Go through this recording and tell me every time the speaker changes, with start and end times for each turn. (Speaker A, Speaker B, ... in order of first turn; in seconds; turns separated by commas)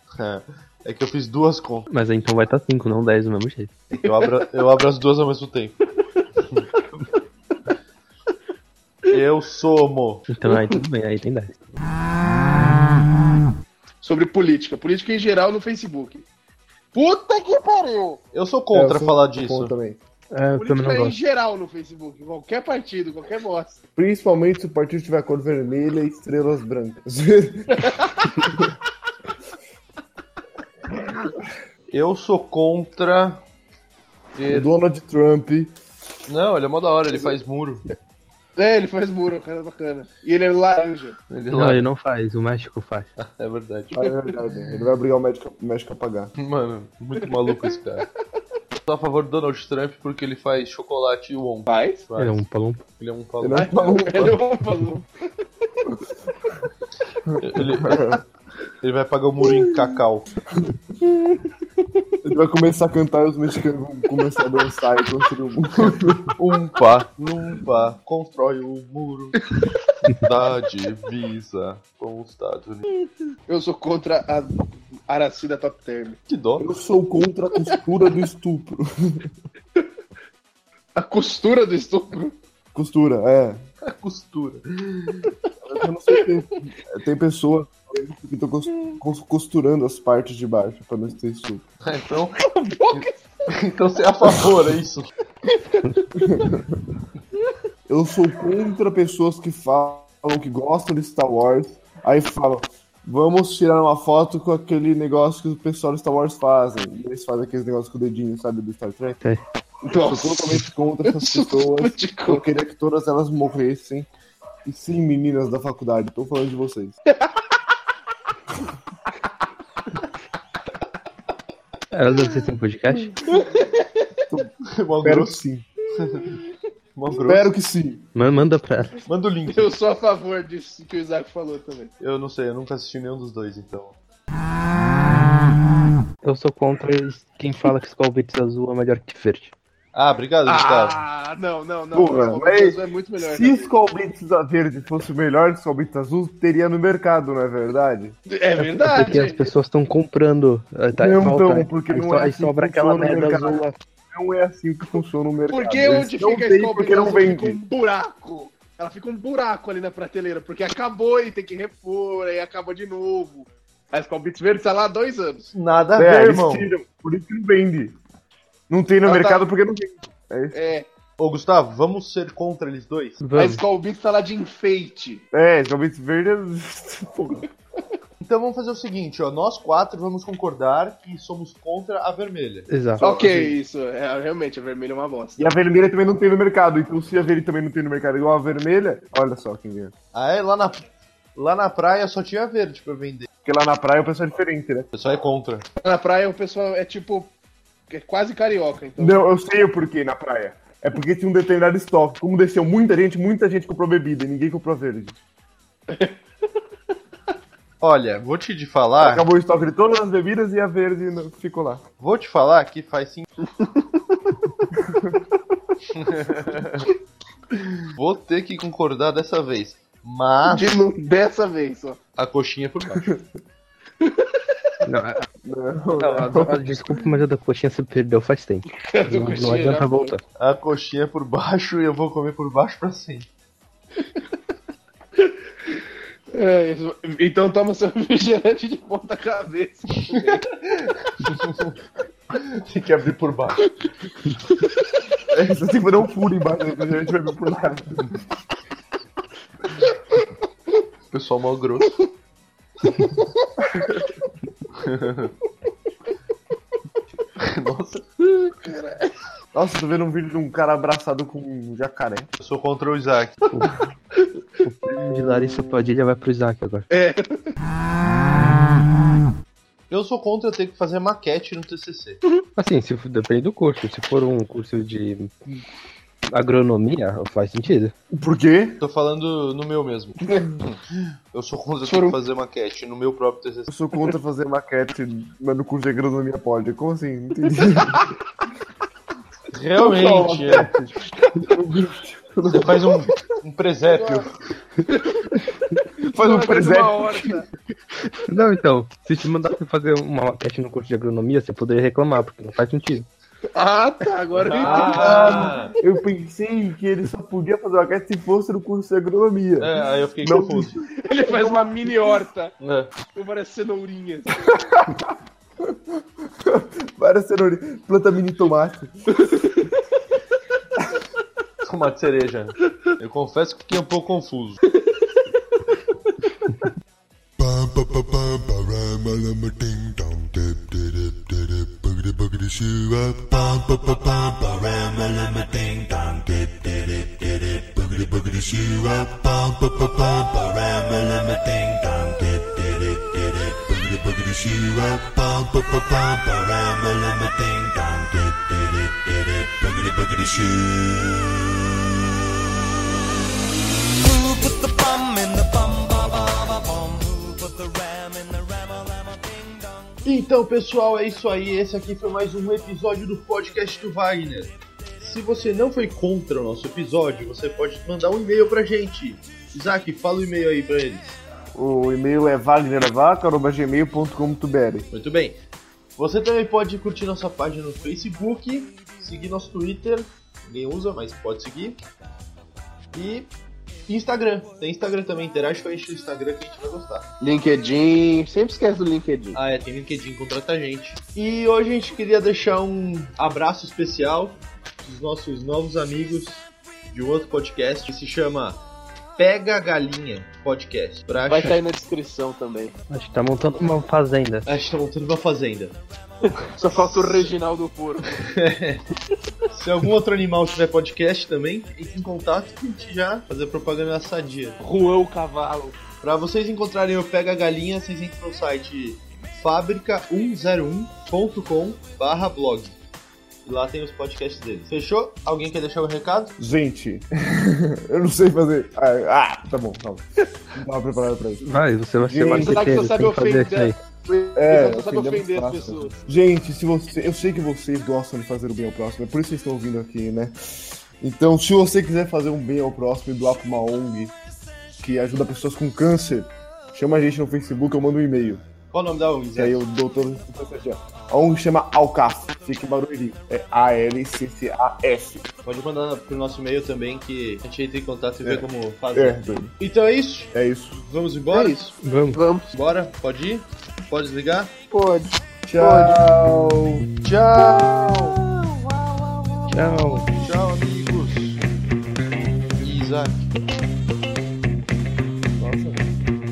Speaker A: 0.1-1.9, Speaker B: 1.9-3.7, Speaker A: 3.9-5.8, Speaker C: 4.0-4.4, Speaker A: 9.1-10.3, Speaker B: 10.3-11.6, Speaker C: 10.4-10.7, Speaker C: 14.0-16.2, Speaker C: 16.9-18.2, Speaker A: 18.3-19.7, Speaker D: 18.7-20.0, Speaker B: 20.3-21.2, Speaker C: 20.6-23.8, Speaker D: 23.9-28.7, Speaker C: 27.7-28.3, Speaker A: 31.9-33.4, Speaker A: 34.4-34.7, Speaker D: 34.5-35.7, Speaker A: 36.3-37.8, Speaker C: 38.5-41.2, Speaker A: 41.3-41.9, Speaker B: 41.5-43.1, Speaker A: 43.2-43.9, Speaker D: 43.9-46.3, Speaker A: 46.4-48.1, Speaker A: 48.8-53.7, Speaker C: 51.7-52.0, Speaker B: 52.2-52.8, Speaker D: 53.4-54.4, Speaker C: 53.5-55.3, Speaker D: 57.2-58.2, Speaker A: 57.4-58.2, Speaker A: 58.8-60.3, Speaker D: 59.4-59.8, Speaker D: 62.2-66.3, Speaker A: 66.3-69.4, Speaker A: 70.1-72.8, Speaker C: 73.5-76.2, Speaker A: 76.3-76.7, Speaker D: 76.6-79.3, Speaker C: 80.9-82.3, Speaker D: 82.7-83.6, Speaker A: 83.8-85.3, Speaker D: 85.7-91.7, Speaker A: 91.8-95.1, Speaker C: 92.4-93.1, Speaker C: 95.5-96.5, Speaker D: 96.2-96.6, Speaker D: 97.9-109.2, Speaker D: 109.8-114.1, Speaker C: 109.9-112.5, Speaker D: 114.6-117.0, Speaker C: 117.1-117.3, Speaker B: 121.9-123.2, Speaker C: 123.3-124.1, Speaker D: 124.3-125.7, Speaker A: 124.7-125.4, Speaker A: 125.9-126.4, Speaker A: 126.9-127.5, Speaker D: 127.1-128.0, Speaker B: 128.1-129.0, Speaker A: 129.1-129.7, Speaker C: 129.5-131.9, Speaker A: 132.0-134.0, Speaker B: 136.2-139.5, Speaker A: 139.9-141.0, Speaker C: 140.4-143.7, Speaker D: 141.9-148.2, Speaker C: 148.3-149.5, Speaker B: 148.6-153.6, Speaker D: 150.9-157.6, Speaker C: 155.5-165.5, Speaker A: 165.5-166.7, Speaker D: 165.9-168.0, Speaker D: 168.7-170.5, Speaker C: 169.0-169.4, Speaker C: 170.5-170.9, Speaker A: 171.2-173.2, Speaker B: 173.2-173.6, Speaker C: 173.3-175.2, Speaker D: 175.3-177.4, Speaker A: 178.2-182.7, Speaker B: 182.7-183.2, Speaker D: 183.0-183.6, Speaker C: 183.0-185.5, Speaker D: 185.4-189.9, Speaker A: 190.1-193.3, Speaker D: 193.4-194.9, Speaker A: 194.9-195.7, Speaker C: 195.8-197.3, Speaker C: 197.9-199.2, Speaker D: 199.0-205.2, Speaker C: 205.9-206.2, Speaker A: 207.8-209.2, Speaker D: 209.0-211.8, Speaker A: 212.0-213.2, Speaker C: 213.4-214.7, Speaker D: 214.8-215.1, Speaker A: 215.9-216.9, Speaker A: 217.8-220.8, Speaker C: 220.4-222.0, Speaker A: 222.2-223.1, Speaker C: 224.0-224.5, Speaker B: 224.8-225.3, Speaker D: 225.4-227.1, Speaker B: 226.0-230.2, Speaker C: 228.8-230.1, Speaker A: 230.4-233.3, Speaker C: 236.3-240.4, Speaker A: 240.1-241.7, Speaker A: 242.3-243.7, Speaker D: 245.3-248.2, Speaker C: 249.8-250.2, Speaker A: 251.1-252.0, Speaker C: 252.9-253.9, Speaker A: 254.8-255.3, Speaker A: 257.4-258.0, Speaker C: 258.2-259.1, Speaker D: 259.5-262.3, Speaker A: 262.4-263.4, Speaker B: 263.5-263.8, Speaker B: 264.6-266.9, Speaker C: 266.9-267.5, Speaker A: 269.9-272.2, Speaker B: 272.6-275.3, Speaker B: 276.3-277.9, Speaker D: 278.1-278.8, Speaker A: 278.8-283.7, Speaker C: 281.8-282.1, Speaker D: 283.7-288.1, Speaker A: 289.5-290.7, Speaker D: 289.8-292.9, Speaker A: 292.5-294.3, Speaker C: 293.9-294.2, Speaker C: 294.8-297.5, Speaker D: 296.1-297.3, Speaker B: 298.3-303.1, Speaker C: 303.5-305.8, Speaker A: 304.4-305.8, Speaker D: 304.6-311.9, Speaker A: 309.6-310.8, Speaker C: 311.0-312.5, Speaker A: 312.6-312.9, Speaker C: 313.1-314.4, Speaker D: 314.4-318.9, Speaker C: 319.1-319.7, Speaker A: 321.6-324.6, Speaker E: 327.4-351.4, Speaker F: 354.0-359.9, Speaker A: 360.0-371.2, Speaker D: 371.5-374.9, Speaker A: 374.9-375.4, Speaker A: 376.0-381.8, Speaker A: 382.9-383.3, Speaker A: 383.9-387.1, Speaker C: 387.2-389.4, Speaker A: 389.3-398.6, Speaker A: 399.2-401.6, Speaker C: 401.2-402.7, Speaker B: 402.9-404.5, Speaker A: 404.4-405.8, Speaker C: 406.3-408.1, Speaker A: 407.0-407.2, Speaker A: 408.1-408.8, Speaker A: 409.5-414.6, Speaker C: 414.6-415.8, Speaker A: 416.0-422.7, Speaker A: 423.4-426.3, Speaker D: 426.4-431.4, Speaker B: 431.4-433.8, Speaker D: 432.0-432.9, Speaker C: 432.2-435.9, Speaker D: 434.4-440.4, Speaker D: 441.0-444.1, Speaker D: 444.8-448.4, Speaker A: 448.7-449.6, Speaker D: 449.3-455.3, Speaker A: 455.4-460.3, Speaker D: 458.2-459.6, Speaker D: 460.3-460.8, Speaker A: 460.8-461.7, Speaker C: 461.3-462.5, Speaker B: 461.8-462.2, Speaker A: 462.5-464.5, Speaker C: 464.7-466.0, Speaker D: 465.5-466.9, Speaker A: 467.0-468.2, Speaker B: 469.5-470.1, Speaker A: 470.1-471.4, Speaker A: 472.6-473.3, Speaker D: 475.4-475.8